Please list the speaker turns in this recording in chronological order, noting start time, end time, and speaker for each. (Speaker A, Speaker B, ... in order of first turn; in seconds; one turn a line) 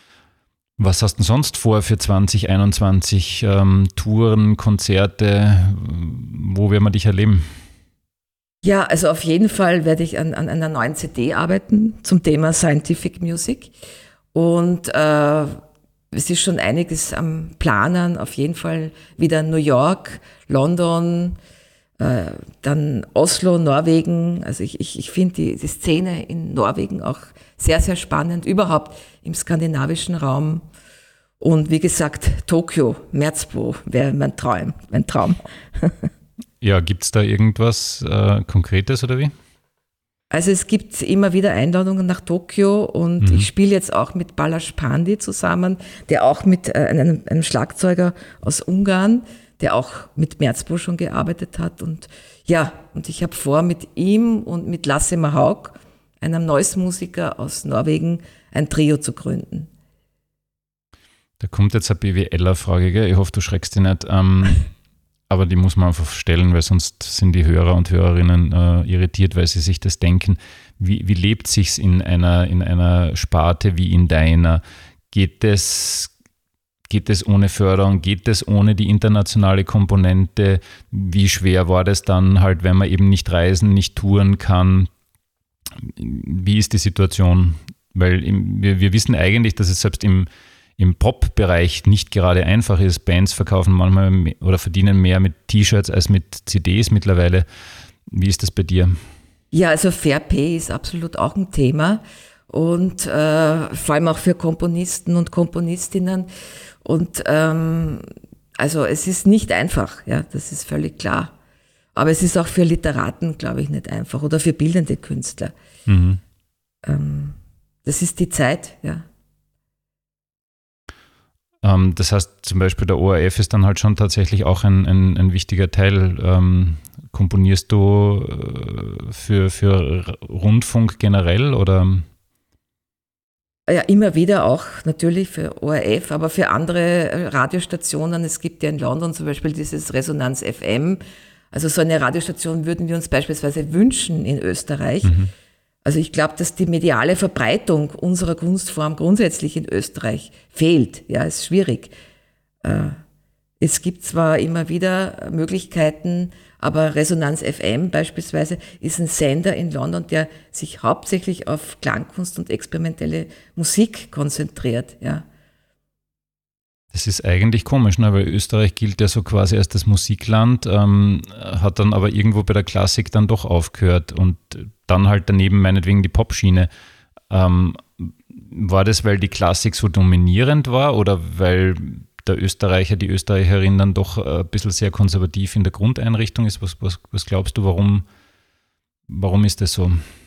Speaker A: 0.8-7.5
Speaker B: 8.6-13.7
Speaker B: 14.3-15.5
Speaker B: 16.1-21.4
Speaker B: 22.0-30.6
Speaker B: 31.4-36.1
Speaker A: 36.6-39.3
Speaker B: 40.3-59.7
Speaker A: 43.2-43.5
Speaker A: 61.4-64.7
Speaker A: 65.3-76.1
Speaker A: 76.9-84.9
Speaker A: 85.8-97.4
Speaker A: 98.1-99.0
Speaker B: 99.5-106.3
Speaker B: 106.8-108.0
Speaker B: 108.6-111.3
Speaker B: 111.9-115.5
Speaker A: 115.9-116.2
Speaker B: 116.8-119.0
Speaker A: 121.6-132.1
Speaker B: 133.7-141.0
Speaker B: 141.5-145.2
Speaker A: 145.0-145.3
Speaker B: 145.8-151.9
Speaker B: 152.6-153.0
Speaker B: 153.6-165.2
Speaker A: 166.9-176.7
Speaker A: 177.3-188.1
Speaker A: 189.1-190.0